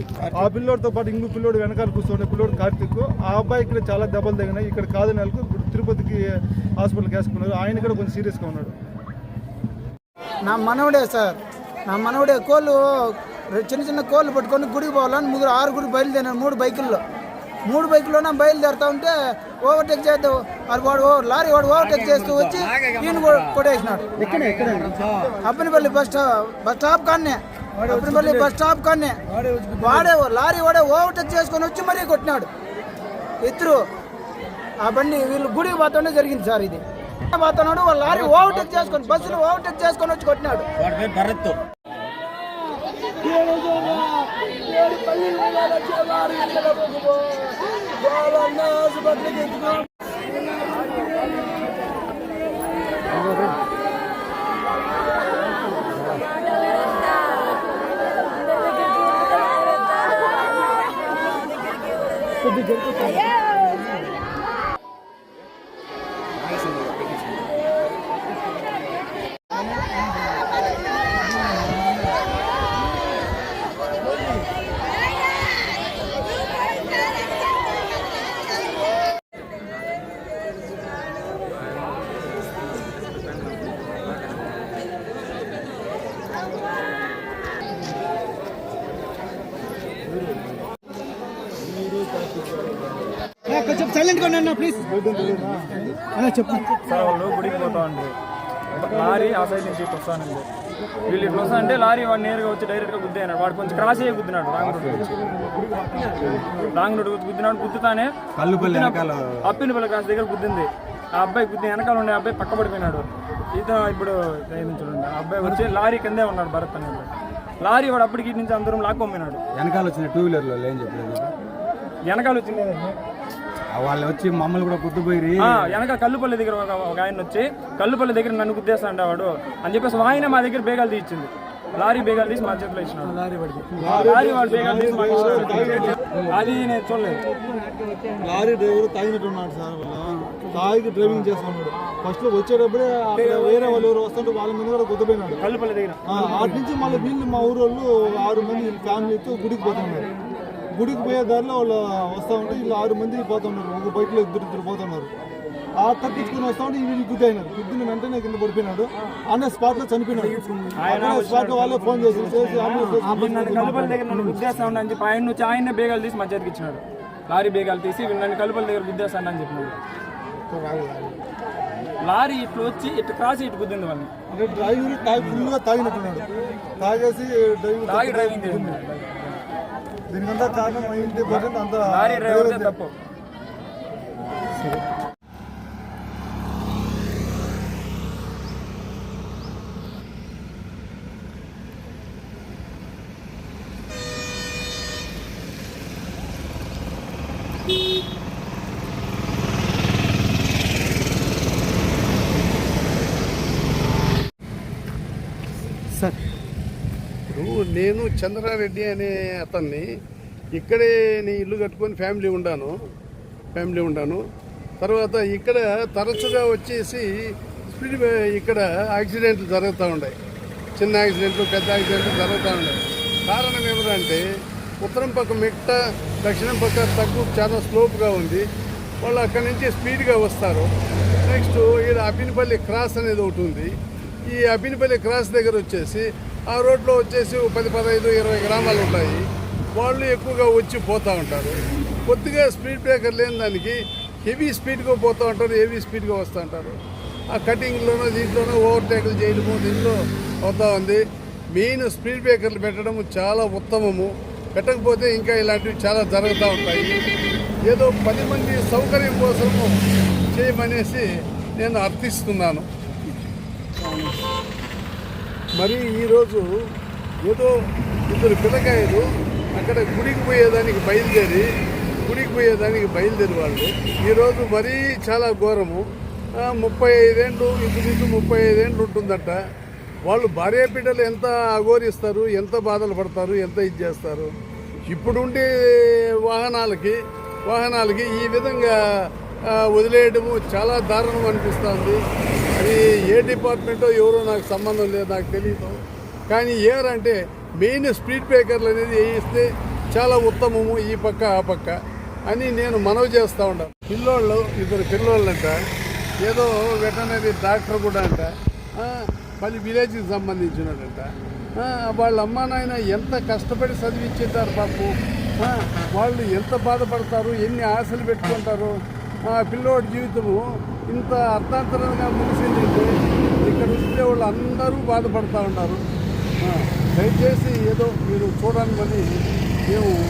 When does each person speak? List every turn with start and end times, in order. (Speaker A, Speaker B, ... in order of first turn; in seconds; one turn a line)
Speaker A: 0.3-6.2
Speaker A: 6.8-8.7
Speaker B: 10.4-12.8
Speaker B: 13.5-17.0
Speaker B: 17.7-24.1
Speaker C: 21.8-23.6
Speaker C: 24.2-25.4
Speaker B: 25.4-29.2
Speaker C: 27.8-28.5
Speaker C: 29.4-30.1
Speaker B: 29.8-32.5
Speaker B: 33.4-33.8
Speaker B: 34.8-40.7
Speaker C: 38.4-38.8
Speaker C: 41.0-41.4
Speaker C: 43.6-43.9
Speaker C: 53.2-53.5
Speaker A: 91.8-92.1
Speaker B: 93.5-94.8
Speaker A: 94.8-95.8
Speaker B: 96.1-96.7
Speaker D: 96.8-98.2
Speaker D: 98.8-100.5
Speaker D: 101.0-105.2
Speaker C: 104.5-106.4
Speaker D: 106.7-119.4
Speaker C: 108.3-109.5
Speaker C: 119.5-121.3
Speaker D: 122.1-123.0
Speaker C: 123.7-125.7
Speaker D: 125.4-133.2
Speaker A: 133.8-136.0
Speaker D: 133.8-137.2
Speaker A: 138.2-145.4
Speaker D: 143.2-143.8
Speaker D: 145.4-146.4
Speaker A: 146.1-150.1
Speaker A: 150.7-155.1
Speaker A: 155.8-164.1
Speaker D: 160.8-169.8
Speaker C: 170.6-171.1
Speaker D: 172.1-174.1
Speaker A: 174.3-176.2
Speaker A: 176.8-178.8
Speaker D: 177.9-179.4
Speaker A: 180.1-182.8
Speaker D: 181.9-182.9
Speaker E: 207.3-209.8
Speaker E: 210.6-212.7
Speaker E: 213.5-214.2
Speaker E: 214.8-217.1
Speaker E: 217.7-220.1
Speaker E: 220.8-224.2
Speaker E: 224.8-228.4
Speaker E: 229.0-230.7
Speaker E: 231.2-233.7
Speaker E: 234.3-239.2
Speaker E: 239.8-246.8
Speaker E: 247.3-251.0
Speaker E: 251.5-256.9
Speaker E: 257.7-259.7
Speaker E: 260.3-261.0
Speaker E: 261.6-262.6
Speaker E: 265.6-266.4
Speaker E: 267.2-267.5
Speaker E: 268.1-269.0
Speaker E: 269.5-271.4
Speaker E: 272.0-275.8
Speaker E: 276.4-279.4
Speaker E: 280.1-284.3
Speaker E: 284.9-285.7
Speaker E: 286.2-286.9
Speaker E: 287.5-288.7
Speaker E: 289.7-292.0
Speaker E: 292.6-295.8
Speaker E: 296.3-305.5
Speaker E: 306.2-314.9
Speaker E: 315.4-318.7
Speaker E: 319.3-322.9
Speaker E: 323.4-325.8
Speaker E: 326.4-329.0
Speaker E: 329.7-329.9